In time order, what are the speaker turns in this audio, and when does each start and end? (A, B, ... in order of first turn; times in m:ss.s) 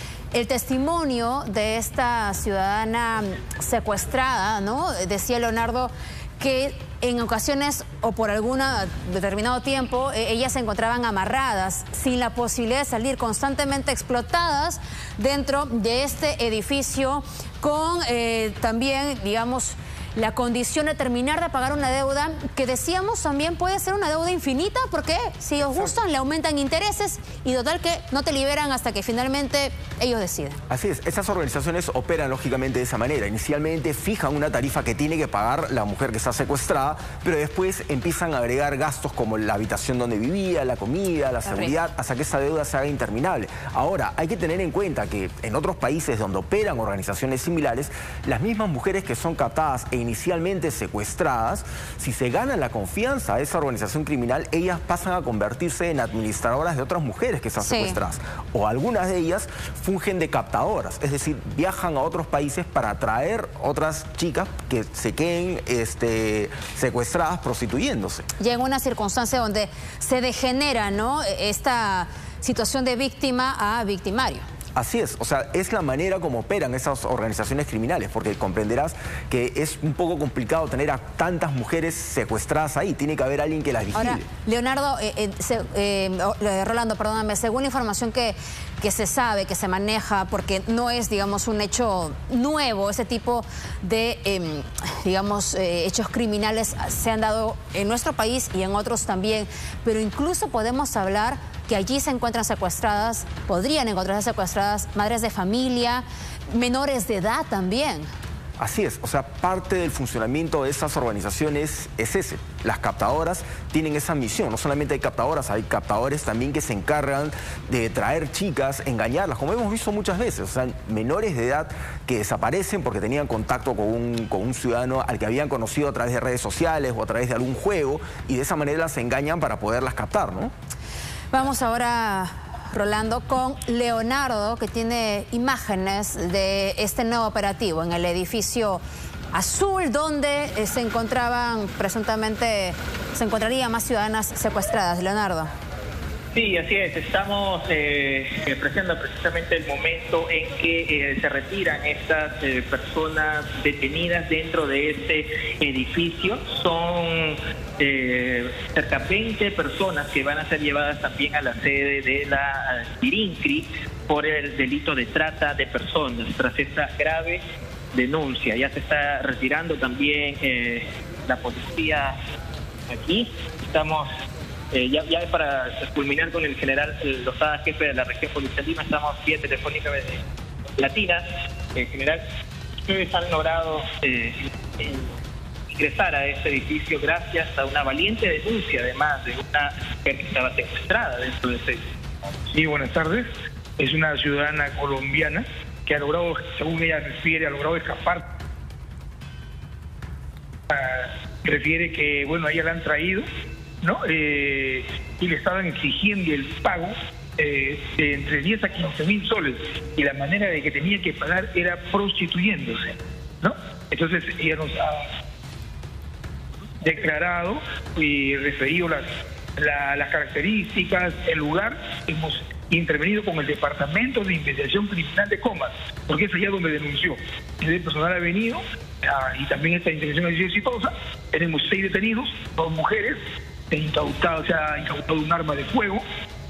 0:00.3-0:30.6 A
0:30.7-1:08.3 B
0:57.6-0:58.0 A
1:08.4-1:14.5 A
1:14.8-1:24.3 B
1:24.0-1:48.1 A
1:48.6-2:10.5 B
2:11.3-2:18.8 A
2:19.3-2:25.5 A
2:26.3-2:47.4 C
2:47.9-2:52.2 C
2:52.9-2:54.1 C
2:54.7-3:00.2 C
3:00.8-3:02.2 C
3:02.9-3:05.1 C
3:05.7-3:11.8 C
3:12.5-3:18.2 D
3:20.7-3:23.2 D
3:23.8-3:35.1 D
3:36.8-3:53.2 D
3:53.7-3:56.0 D